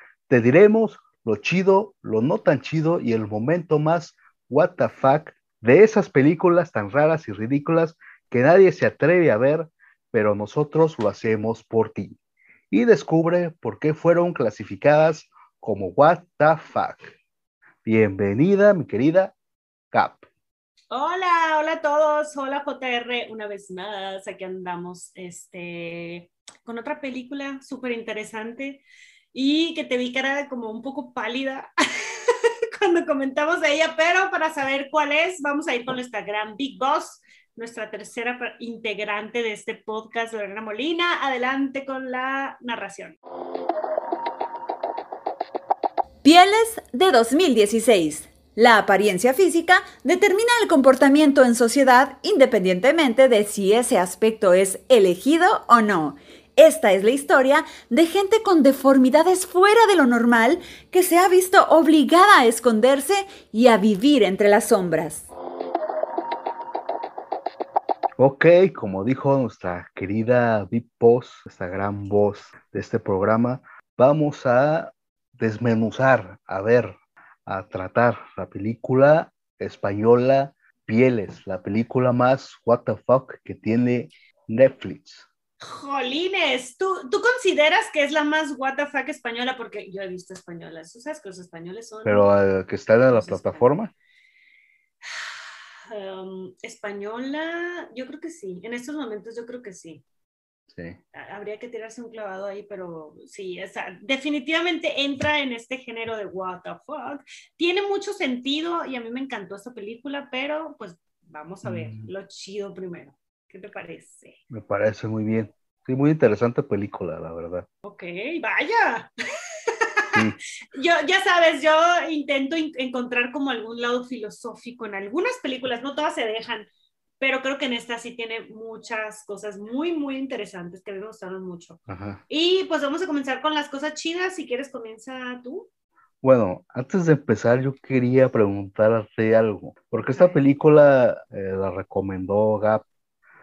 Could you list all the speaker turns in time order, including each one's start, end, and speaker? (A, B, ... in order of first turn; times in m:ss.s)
0:00.3-0:12.2 A
0:12.7-0:17.1 A
0:17.8-0:19.3 A
0:19.9-0:20.2 A
0:20.9-0:28.8 B
0:29.3-0:43.2 B
0:46.2-1:05.3 C
1:08.2-1:25.3 A
1:25.6-1:32.3 B
1:32.0-1:33.9 A
1:33.1-1:33.7 B
1:35.1-1:35.4 B
1:35.9-1:40.0 B
1:40.7-1:41.0 A
1:41.1-1:54.4 B
1:51.6-1:52.1 A
1:54.5-1:57.6 A
1:57.8-1:59.1 B
1:59.7-2:00.2 B
2:00.7-2:06.7 B
2:07.2-2:15.7 B
2:11.9-2:12.2 A
2:16.2-2:22.8 A
2:20.0-2:20.4 B